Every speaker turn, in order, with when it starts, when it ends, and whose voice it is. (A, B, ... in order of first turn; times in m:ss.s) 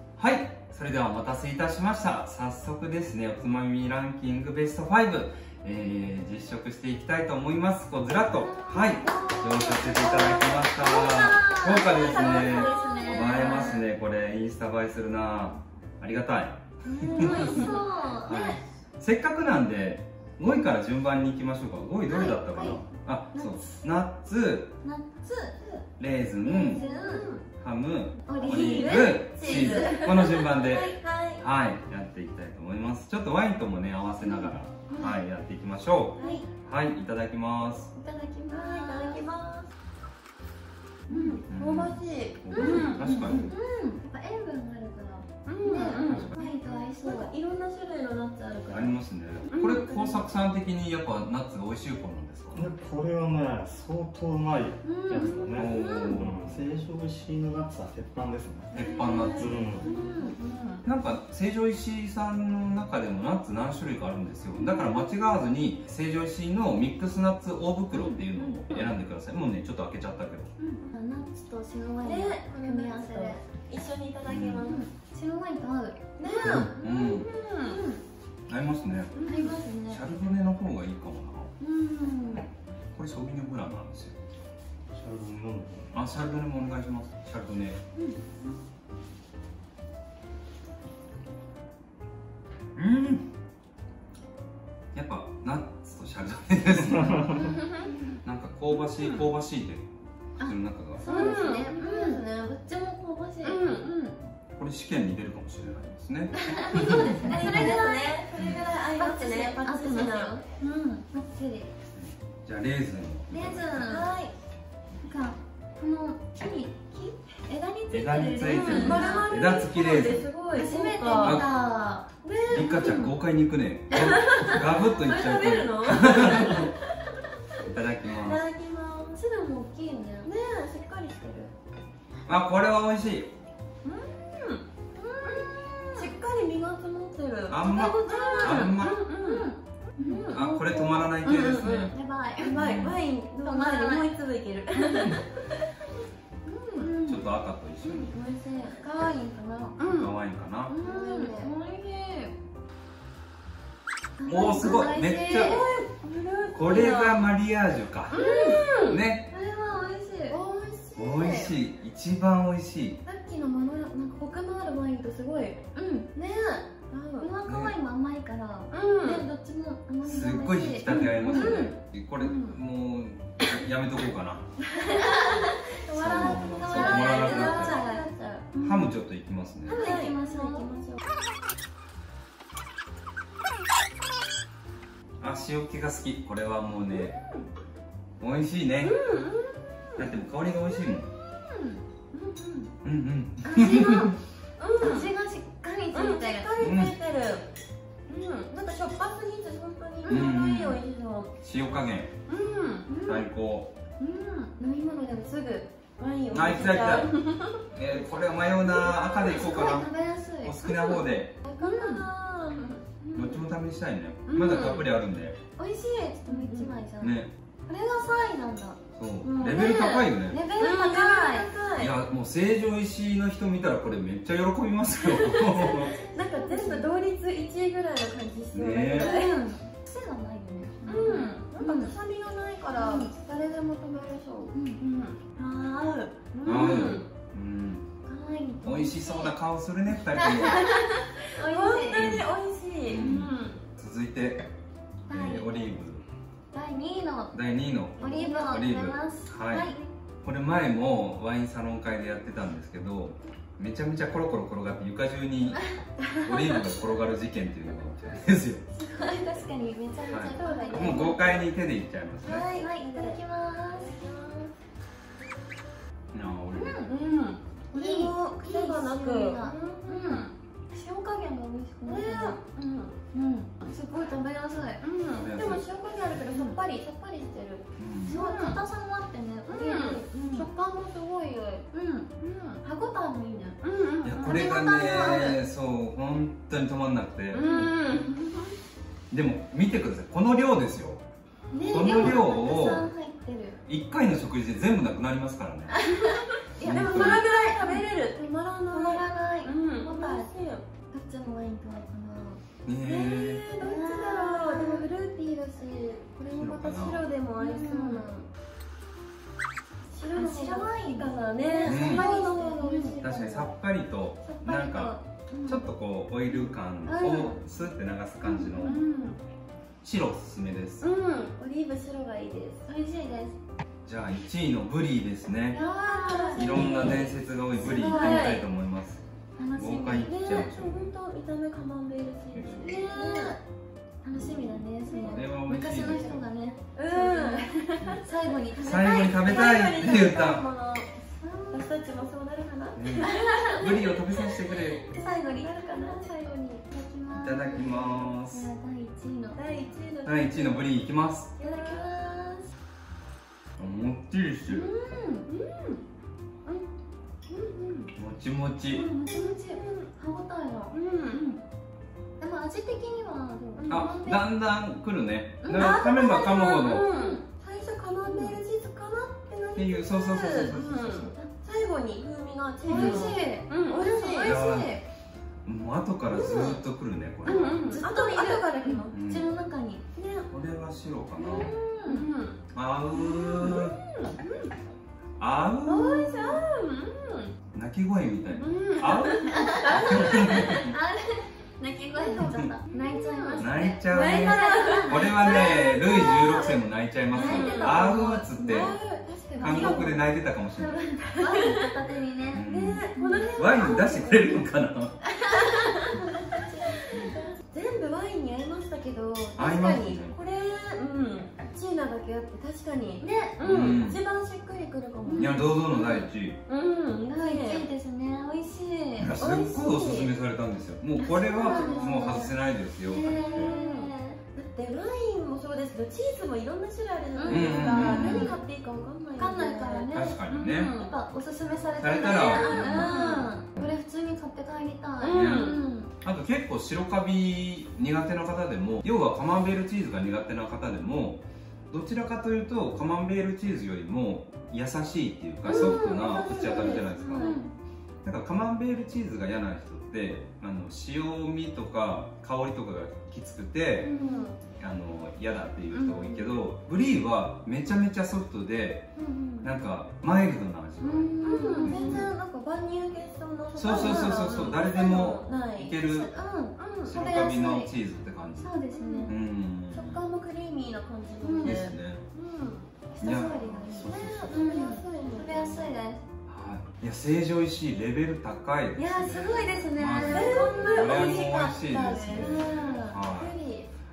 0:00.2-0:24.8 A
0:08.3-0:13.8 B
0:11.7-0:13.8 C
0:16.9-0:18.6 B
0:17.1-0:17.8 C
0:22.1-0:23.7 B
0:24.8-0:25.8 B
0:26.0-0:26.8 A
0:26.4-0:27.3 B
0:26.5-0:27.4 C
0:27.6-0:37.9 A
0:28.3-0:30.3 B
0:28.4-0:31.4 C
0:34.9-0:35.2 B
0:36.2-0:36.4 C
0:36.2-0:36.5 B
0:38.0-0:39.2 B
0:38.5-0:39.7 C
0:41.1-0:41.4 B
0:41.1-0:43.6 C
0:41.5-0:43.5 A
0:42.5-0:47.3 B
0:45.5-0:50.2 C
0:46.0-0:46.3 A
0:48.7-0:52.7 A
0:52.5-0:59.9 D
0:54.8-0:55.9 B
0:55.1-0:56.2 C
0:55.5-0:56.5 A
0:58.7-0:59.6 A
0:58.7-1:00.8 C
0:58.9-1:00.4 B
1:00.8-1:10.5 A
1:04.6-1:05.0 C
1:07.9-1:08.2 B
1:08.4-1:08.9 C
1:10.6-1:13.4 B
1:12.0-1:14.9 C
1:14.3-1:14.7 A
1:14.6-1:16.6 B
1:16.2-1:17.8 C
1:16.4-1:17.3 A
1:17.7-1:18.0 B
1:18.5-1:21.5 A
1:19.1-1:19.6 C
1:19.3-1:20.0 B
1:21.6-1:22.4 B
1:23.0-1:24.2 A
1:24.9-1:26.0 D
1:25.9-1:27.8 A
1:28.0-1:28.4 B
1:32.8-1:33.3 A
1:34.9-1:37.6 A
1:37.4-1:37.9 C
1:37.6-1:38.2 B
1:38.2-1:39.9 A
1:38.7-1:39.3 C
1:40.4-1:41.4 A
1:40.4-1:43.9 B
1:41.0-1:42.3 C
1:43.4-1:44.2 C
1:44.5-1:47.7 A
1:46.4-1:51.7 B
1:46.5-1:50.4 C
1:48.4-1:48.6 A
1:52.0-1:53.9 A
1:53.3-1:54.1 B
1:53.8-1:54.4 C
1:55.0-1:59.3 B
1:57.9-2:00.3 A
1:58.4-2:01.5 C
2:00.5-2:02.1 B
2:01.2-2:01.5 A
2:02.2-2:03.2 C
2:02.4-2:06.7 A
2:03.9-2:07.1 C
2:07.6-2:08.4 A
2:08.0-2:09.2 C
2:09.2-2:10.3 B
2:10.2-2:11.5 C
2:12.3-2:13.3 A
2:13.8-2:14.6 C
2:15.0-2:16.1 B
2:15.2-2:25.7 C
2:17.5-2:19.0 A
2:17.8-2:20.3 B
2:20.3-2:21.9 A
2:21.7-2:24.1 B
2:22.5-2:23.0 A
2:24.8-2:25.2 B
2:26.5-2:27.2 B
2:26.7-2:26.9 C
2:27.0-2:28.1 A
2:27.8-2:28.2 C
2:27.9-2:29.8 B
2:29.8-2:30.2 C
2:29.9-2:30.8 A
2:30.7-2:31.5 C
2:30.7-2:32.4 B
2:34.2-2:35.7 B
2:34.2-2:35.6 A
2:35.3-2:37.3 C
2:36.5-2:39.3 A
2:38.1-2:39.0 C
2:38.1-2:38.7 B
2:39.3-2:40.4 B
2:40.3-2:41.6 C
2:41.0-2:43.0 A
2:43.1-2:45.6 C
2:45.7-2:46.1 B
2:46.2-2:47.3 C
2:47.2-2:51.7 B
2:47.4-2:47.8 A
2:48.7-2:49.3 C
2:50.0-2:54.4 A
2:50.9-2:52.6 C
2:54.7-2:58.4 C
2:55.0-2:58.9 B
2:56.0-2:57.8 A
2:58.6-2:59.9 A
2:59.7-3:00.7 B
2:59.7-3:01.0 C
3:05.2-3:07.2 A
3:06.9-3:07.5 C
3:08.2-3:09.0 A
3:08.8-3:10.1 C
3:10.0-3:11.1 A
3:10.9-3:12.7 C
3:12.8-3:14.2 A
3:13.5-3:14.1 B
3:14.6-3:15.1 C
3:14.8-3:16.5 B
3:15.9-3:17.5 C
3:16.6-3:16.9 A
3:18.1-3:21.3 C
3:20.0-3:20.3 B
3:20.1-3:20.8 A
3:21.4-3:22.1 A
3:22.3-3:22.9 C
3:22.9-3:23.3 B
3:23.0-3:23.7 A
3:24.0-3:24.6 C
3:24.6-3:25.3 B
3:25.1-3:27.6 C
3:26.3-3:27.1 A
3:27.7-3:31.4 A
3:28.6-3:29.8 C
3:29.2-3:30.6 B
3:30.6-3:33.4 C
3:31.4-3:32.1 B
3:33.1-3:33.3 B
3:33.1-3:35.4 A
3:34.3-3:34.9 C
3:35.6-3:37.2 B
3:36.3-3:36.7 C
3:37.0-3:37.3 A
3:37.7-3:38.8 B
3:39.0-3:40.4 A
3:39.2-3:41.9 C
3:40.3-3:41.5 B
3:41.8-3:46.0 A
3:45.3-3:49.4 C
3:45.4-3:46.9 B
3:48.5-3:49.1 A
3:48.9-3:51.9 B
3:50.9-3:57.1 C
3:52.7-3:53.1 B
3:54.5-3:54.8 B
3:56.4-3:57.9 A
3:58.1-3:59.3 B
3:58.6-4:00.6 A
4:00.2-4:00.8 B
4:00.2-4:03.6 C
4:01.4-4:02.1 B
4:02.0-4:02.3 A
4:02.9-4:04.4 A
4:05.1-4:05.7 B
4:05.1-4:06.0 A
4:06.5-4:07.4 B
4:07.3-4:09.7 A
4:08.0-4:09.8 B
4:08.1-4:08.4 C
4:10.2-4:18.6 A
4:18.8-4:21.3 B
4:20.1-4:22.5 A
4:20.4-4:21.4 C
4:22.2-4:23.2 C
4:22.6-4:23.9 B
4:23.7-4:24.6 C
4:26.1-4:26.8 A
4:26.5-4:26.9 B
4:26.8-4:30.3 C
4:27.7-4:32.4 B
4:31.9-4:33.0 C
4:33.1-4:34.8 B
4:34.8-4:36.7 C
4:35.1-4:35.6 A
4:36.3-4:40.5 B
4:37.8-4:38.2 A
4:38.1-4:38.6 C
4:39.5-4:41.7 C
4:41.7-4:42.1 B
4:42.2-4:42.6 C
4:42.6-4:43.6 B
4:43.6-4:45.4 C
4:44.0-4:47.7 A
4:44.2-4:45.2 B
4:47.3-4:48.6 C
4:49.1-4:51.0 A
4:51.5-4:53.6 B
4:51.6-4:52.1 C
4:51.7-4:52.9 A
4:53.7-4:55.8 A
4:55.8-5:00.7 C
4:56.6-4:57.3 A
4:56.7-4:57.9 B
4:58.7-5:00.3 B
5:00.9-5:02.4 B
5:02.6-5:03.4 A
5:02.8-5:08.3 C
5:03.6-5:04.9 B
5:06.3-5:07.1 A
5:07.4-5:08.1 B
5:09.9-5:13.0 C
5:10.0-5:13.5 B
5:11.6-5:12.1 A
5:13.0-5:18.8 A
5:14.2-5:15.7 B
5:16.9-5:17.4 C
5:18.2-5:18.8 B
5:18.3-5:19.2 C
5:19.8-5:20.9 A
5:20.8-5:22.7 C
5:22.7-5:23.4 B
5:23.8-5:25.6 A
5:25.5-5:28.3 B
5:25.6-5:28.4 C
5:26.3-5:29.0 A
5:29.4-5:30.1 B
5:29.5-5:30.9 A
5:29.8-5:33.4 C
5:32.3-5:32.9 A
5:32.6-5:33.4 B
5:34.0-5:39.6 B
5:34.1-5:36.3 A
5:34.9-5:35.3 C
5:36.8-5:38.0 C
5:38.6-5:40.9 C
5:38.6-5:40.5 A
5:41.1-5:41.7 B
5:41.5-5:44.0 C
5:42.8-5:44.8 A
5:42.9-5:43.9 B
5:44.8-5:49.4 B
5:44.9-5:46.4 C
5:47.1-5:48.5 A
5:49.4-5:50.7 C
5:50.0-5:51.3 A
5:51.4-5:51.8 C
5:51.4-5:52.5 B
5:53.6-5:54.7 A
5:54.5-5:55.3 B
5:55.3-5:55.8 C
5:57.3-5:57.9 C
5:58.0-5:58.9 A
5:58.7-6:01.4 B
5:59.0-5:59.9 C
6:00.7-6:01.2 C
6:02.2-6:04.2 B
6:03.6-6:03.9 C
6:03.7-6:06.9 A
6:05.4-6:05.8 B
6:05.4-6:14.4 C
6:06.9-6:07.2 B
6:08.1-6:08.4 B
6:09.6-6:11.2 A
6:12.7-6:14.8 B
6:12.7-6:13.1 A
6:14.2-6:14.8 A
6:15.4-6:17.8 A
6:16.1-6:16.6 C
6:17.2-6:19.0 C
6:17.5-6:19.8 B
6:18.9-6:19.3 A
6:20.0-6:20.3 C
6:20.3-6:21.6 A
6:21.2-6:22.4 C
6:21.3-6:22.0 B
6:22.5-6:23.8 A
6:22.9-6:24.5 C
6:25.2-6:26.4 A
6:25.7-6:27.3 C
6:27.5-6:30.8 A
6:28.2-6:28.4 B
6:28.4-6:30.6 C
6:29.3-6:36.6 B
6:32.0-6:32.5 A
6:32.1-6:36.6 C
6:33.4-6:38.8 A
6:37.1-6:38.8 B
6:37.1-6:40.1 C
6:39.3-6:43.9 B
6:39.4-6:40.9 A
6:41.2-6:41.8 C
6:42.3-6:45.0 A
6:42.4-6:44.4 C
6:45.1-6:57.7 C
6:45.4-6:47.4 B
6:46.9-6:47.2 A
6:49.4-6:50.2 A
6:53.0-6:53.8 B
6:53.4-6:54.0 A
6:55.0-6:55.6 B
6:55.2-6:56.4 A
6:57.1-6:59.1 B
6:59.0-7:03.5 A
6:59.2-7:00.1 C
7:01.0-7:02.3 C
7:01.2-7:04.2 B
7:03.1-7:10.9 C
7:07.1-7:08.4 B
7:07.2-7:08.4 A
7:09.2-7:15.9 B
7:09.9-7:10.8 A
7:11.8-7:13.0 A
7:12.0-7:13.3 C
7:15.0-7:15.6 C
7:15.1-7:27.3 A
7:25.4-7:27.4 C
7:25.5-7:27.5 B
7:28.0-7:33.9 A
7:33.8-7:34.4 C
7:34.5-7:38.9 A
7:35.7-7:36.2 C
7:39.0-7:39.5 B
7:39.4-7:42.1 A
7:40.8-7:42.1 B
7:41.2-7:45.8 C
7:43.6-7:46.1 A
7:43.6-7:44.4 B
7:45.8-7:47.7 B
7:46.6-7:47.2 C
7:46.8-7:50.0 A
7:48.4-7:49.2 B
7:48.7-7:49.2 C
7:49.7-7:52.7 C
7:51.2-7:51.6 B
7:51.4-7:52.0 A
7:52.9-7:56.0 B
7:53.0-7:54.5 A
7:53.9-7:55.6 C
7:56.3-8:03.4 A
7:58.8-8:03.7 B
8:00.0-8:02.5 C